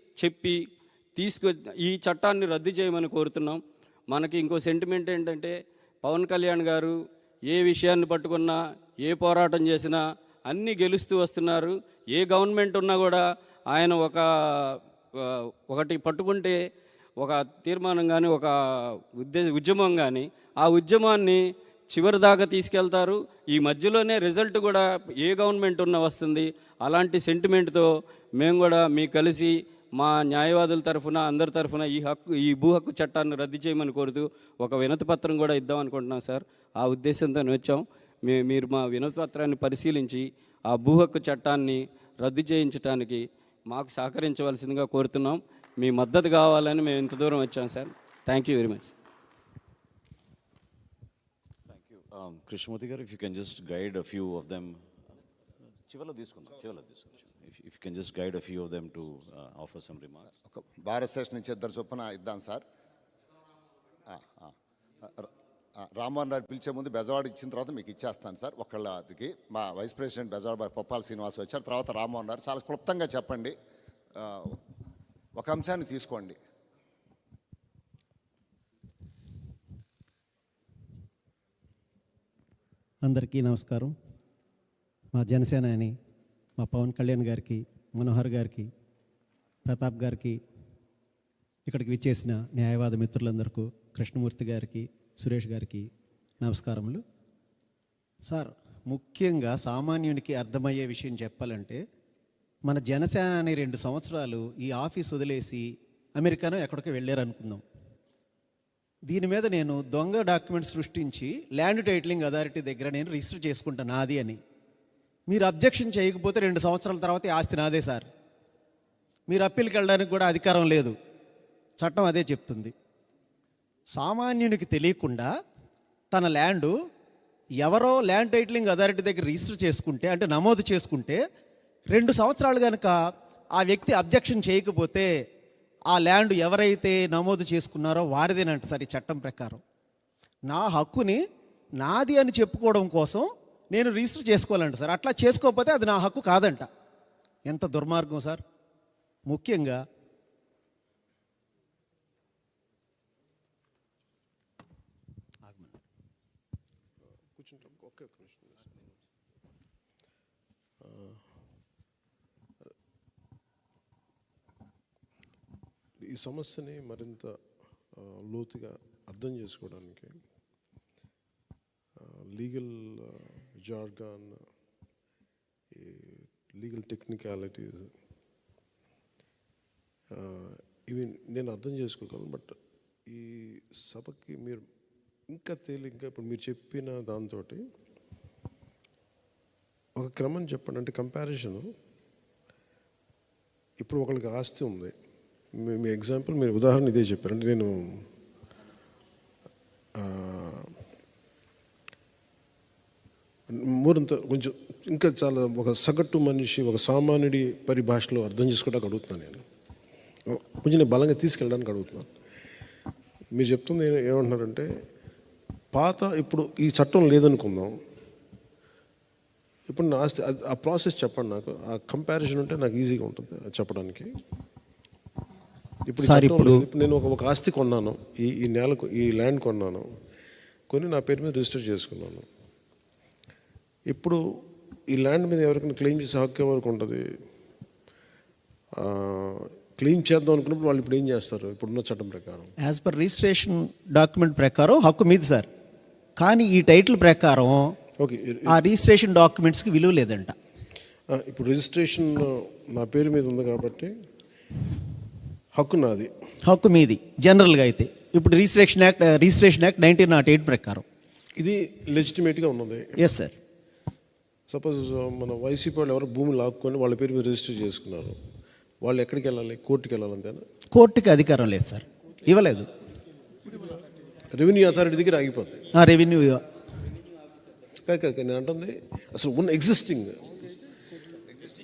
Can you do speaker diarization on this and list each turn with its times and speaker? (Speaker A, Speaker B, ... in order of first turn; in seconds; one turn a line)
Speaker A: 0.2-0.6
Speaker A: 1.1-7.0
Speaker A: 7.5-16.6
Speaker A: 17.2-18.5
Speaker A: 19.2-48.9
Speaker B: 51.7-54.8
Speaker B: 55.9-60.3
Speaker C: 60.4-62.6
Speaker C: 64.0-73.6
Speaker C: 74.2-74.6
Speaker C: 75.3-76.4
Speaker D: 83.0-83.9
Speaker D: 85.2-85.9
Speaker D: 86.6-88.7
Speaker D: 89.6-90.4
Speaker D: 91.7-95.9
Speaker D: 96.4-97.0
Speaker D: 98.3-101.8
Speaker D: 102.7-105.7
Speaker D: 106.2-107.6
Speaker D: 109.1-114.4
Speaker D: 115.3-118.1
Speaker D: 119.3-120.9
Speaker D: 121.8-122.7
Speaker D: 123.9-125.3
Speaker D: 126.1-126.7
Speaker D: 127.6-131.2
Speaker D: 131.9-133.0
Speaker D: 133.6-135.1
Speaker D: 135.9-139.6
Speaker D: 140.5-141.2
Speaker D: 141.8-146.7
Speaker D: 147.5-148.4
Speaker D: 149.3-149.8
Speaker D: 155.4-155.8
Speaker E: 157.3-158.8
Speaker E: 160.8-161.2
Speaker E: 166.0-167.4
Speaker E: 167.9-170.2
Speaker E: 172.0-174.4
Speaker E: 175.7-177.9
Speaker E: 180.1-184.6
Speaker E: 185.3-187.6
Speaker E: 190.0-191.7
Speaker E: 193.8-194.9
Speaker E: 195.5-198.1
Speaker E: 200.0-200.8
Speaker E: 203.5-209.4
Speaker E: 210.3-212.1
Speaker E: 213.3-214.7
Speaker E: 215.7-217.7
Speaker E: 219.7-224.1
Speaker E: 225.9-229.9
Speaker D: 226.0-226.7
Speaker E: 230.7-232.2
Speaker E: 233.9-237.1
Speaker E: 238.7-242.5
Speaker D: 242.6-245.5
Speaker D: 246.2-247.8
Speaker E: 248.0-248.6
Speaker D: 248.5-250.3
Speaker E: 251.1-253.9
Speaker E: 255.5-256.1
Speaker D: 256.4-260.8
Speaker E: 261.4-263.0
Speaker D: 263.0-263.4
Speaker E: 264.5-268.2
Speaker E: 268.8-270.4
Speaker D: 270.7-272.7
Speaker E: 274.3-275.7
Speaker D: 275.8-276.4
Speaker E: 277.8-280.5